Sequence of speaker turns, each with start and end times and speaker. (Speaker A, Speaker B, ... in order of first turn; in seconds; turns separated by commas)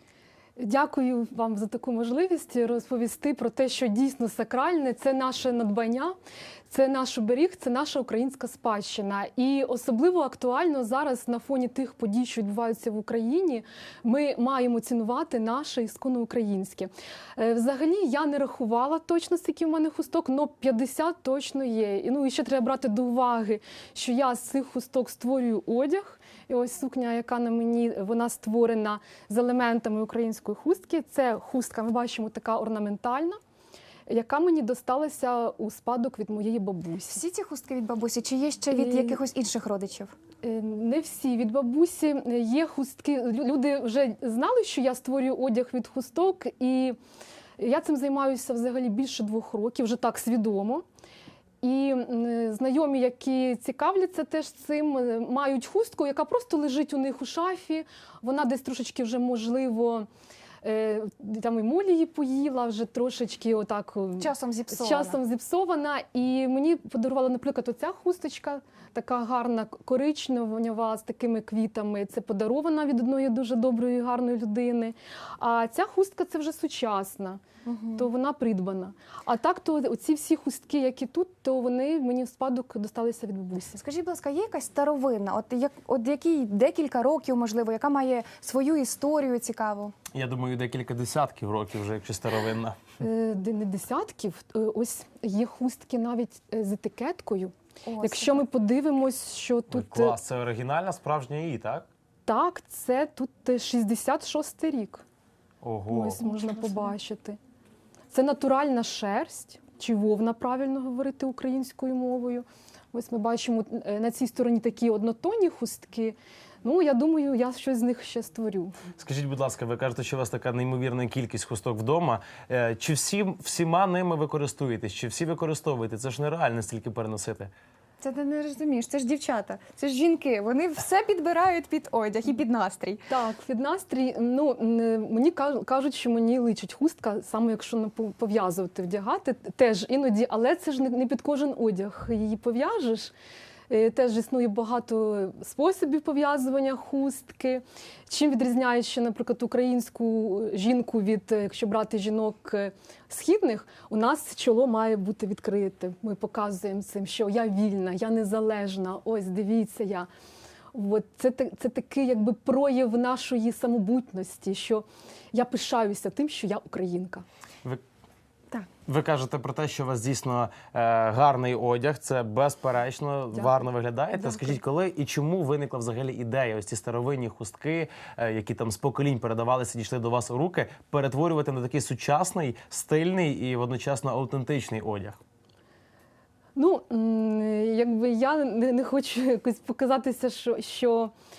Speaker A: 0.6-6.2, Speaker A: 6.7-33.4, Speaker A: 34.1-37.2, Speaker B: 37.1-40.1, Speaker A: 38.7-39.2, Speaker A: 40.4-47.0, Speaker A: 47.6-50.8, Speaker A: 51.6-60.1, Speaker A: 60.6-77.4, Speaker B: 64.2-65.2, Speaker B: 77.6-78.1, Speaker A: 78.0-83.8, Speaker B: 83.7-89.9, Speaker C: 90.1-92.9, Speaker A: 93.0-100.2, Speaker B: 97.8-98.4, Speaker C: 99.7-101.9, Speaker A: 102.2-105.0, Speaker C: 105.6-106.2, Speaker A: 105.9-107.4, Speaker A: 108.1-118.8, Speaker C: 119.0-127.5, Speaker B: 128.0-133.0, Speaker A: 133.1-143.1, Speaker A: 143.7-160.1, Speaker A: 160.7-167.2, Speaker C: 168.8-185.2, Speaker A: 173.3-173.6, Speaker A: 186.6-191.1